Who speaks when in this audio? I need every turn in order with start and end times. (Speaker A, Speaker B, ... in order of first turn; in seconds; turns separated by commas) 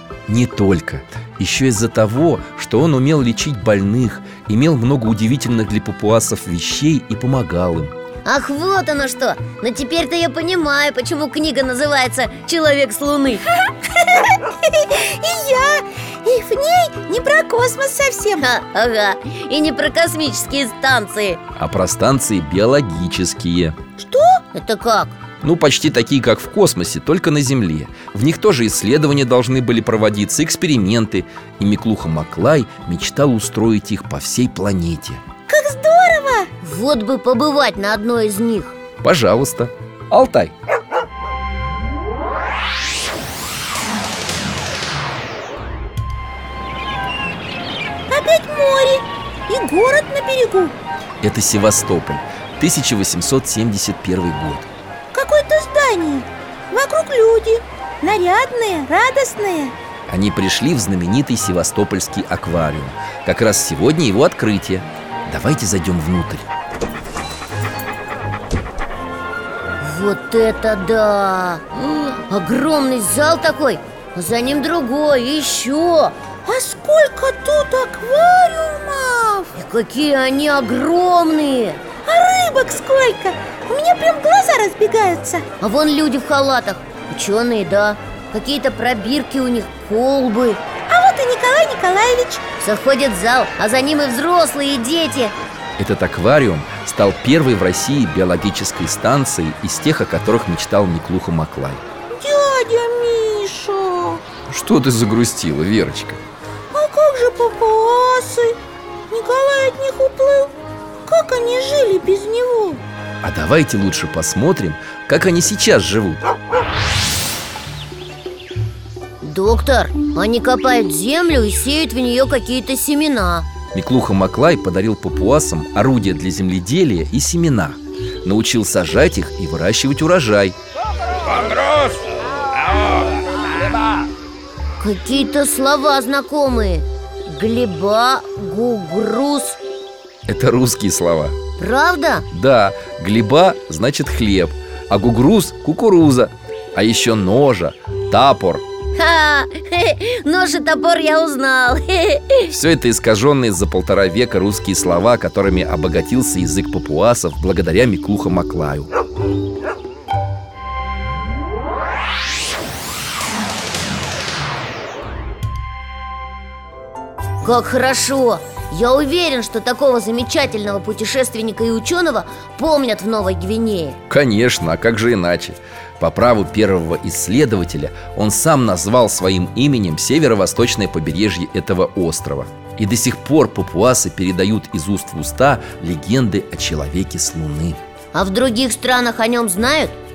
Speaker A: 0.3-7.9, Speaker B: 8.2-13.4, Speaker C: 13.8-18.4, Speaker B: 18.4-21.4, Speaker A: 21.6-23.8, Speaker C: 24.0-24.4, Speaker B: 24.5-25.2, Speaker A: 25.4-35.2, Speaker C: 35.5-36.5, Speaker B: 36.6-38.7, Speaker A: 39.0-40.5, Speaker C: 48.1-50.7, Speaker A: 51.2-54.7, Speaker C: 55.1-59.7, Speaker A: 60.1-66.5, Speaker B: 69.8-76.1, Speaker C: 76.4-79.5, Speaker B: 79.5-81.8, Speaker C: 82.0-85.4, Speaker B: 85.6-90.6, Speaker C: 90.9-92.4, Speaker B: 92.6-95.3, Speaker A: 95.8-101.8, Speaker C: 102.2-104.2, Speaker A: 104.5-106.2, Speaker C: 106.7-108.6, Speaker C: 109.1-110.5, Speaker C: 111.0-112.8, Speaker A: 113.2-116.2, Speaker B: 119.2-123.5, Speaker A: 123.7-130.6, Speaker B: 134.8-139.6, Speaker A: 140.3-141.3, Speaker B: 141.6-142.2, Speaker A: 142.3-148.6, Speaker B: 148.9-152.5, Speaker A: 152.5-158.9, Speaker B: 167.4-174.0, Speaker A: 174.1-187.8, Speaker B: 188.1-189.9